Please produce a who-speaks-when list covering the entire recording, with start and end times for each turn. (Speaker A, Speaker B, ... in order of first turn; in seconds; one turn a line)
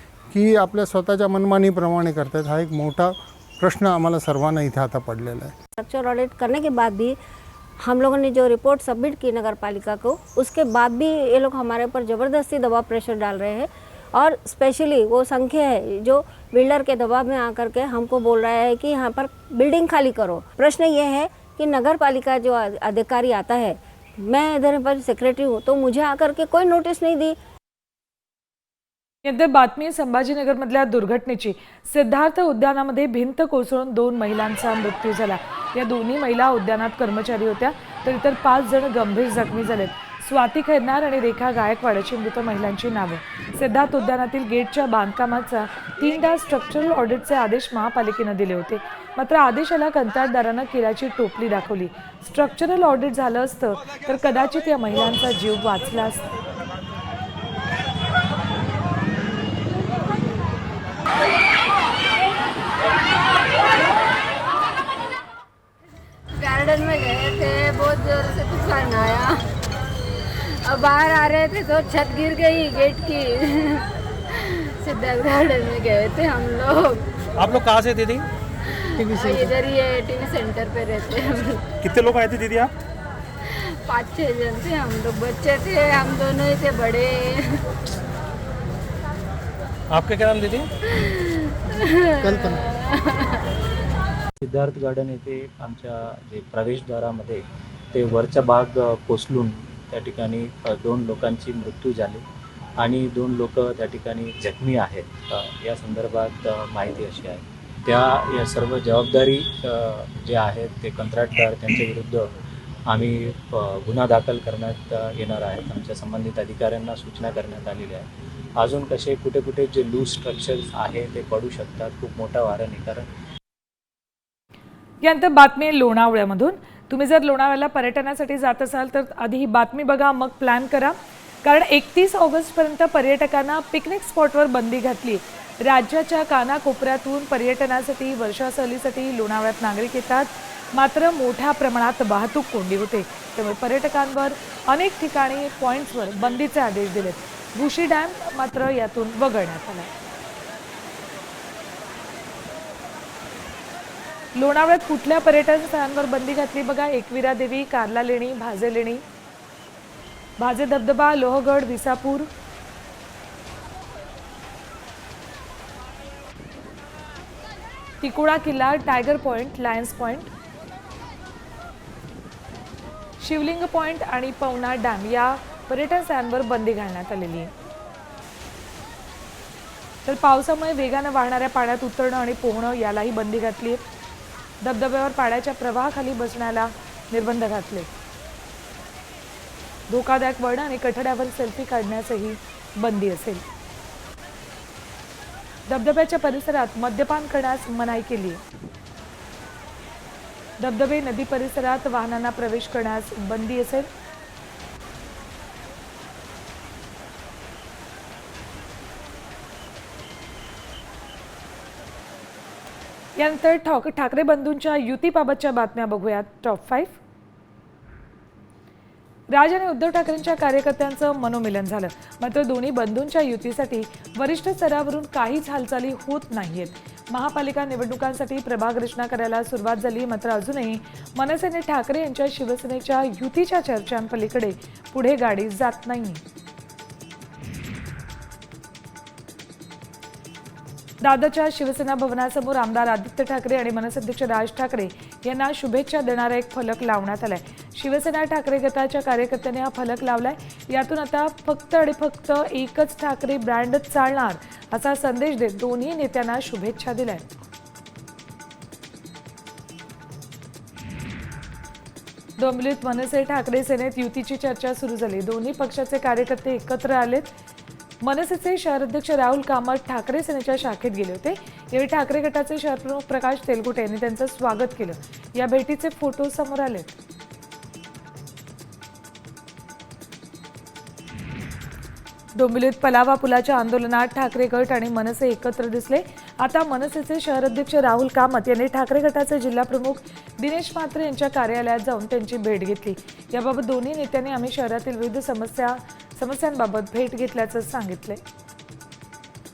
Speaker A: 0.3-5.6
Speaker B: 5.8-7.2
Speaker B: 7.8-27.4
Speaker C: 29.2-56.3
Speaker D: 66.4-69.4
Speaker D: 70.7-77.0
Speaker E: 77.4-78.2
Speaker D: 79.0-81.6
Speaker E: 79.0-79.5
Speaker E: 81.8-82.7
Speaker D: 83.5-87.6
Speaker E: 89.9-90.7
Speaker D: 90.9-93.4
Speaker F: 94.4-102.2
Speaker F: 102.8-112.3
Speaker F: 112.9-123.1
Speaker C: 125.0-149.9
Speaker C: 154.3-159.0
Speaker C: 160.4-162.3
Speaker C: 168.0-170.3
Speaker C: 173.2-177.5
Speaker C: 180.1-183.8
Speaker C: 184.6-187.9
Speaker C: 189.9-193.4
Speaker C: 195.7-198.4
Speaker C: 200.6-203.9
Speaker C: 213.2-217.0
Speaker C: 219.3-236.2
Speaker C: 241.0-257.2
Speaker C: 262.4-267.3
Speaker C: 268.0-276.9
Speaker C: 282.4-298.2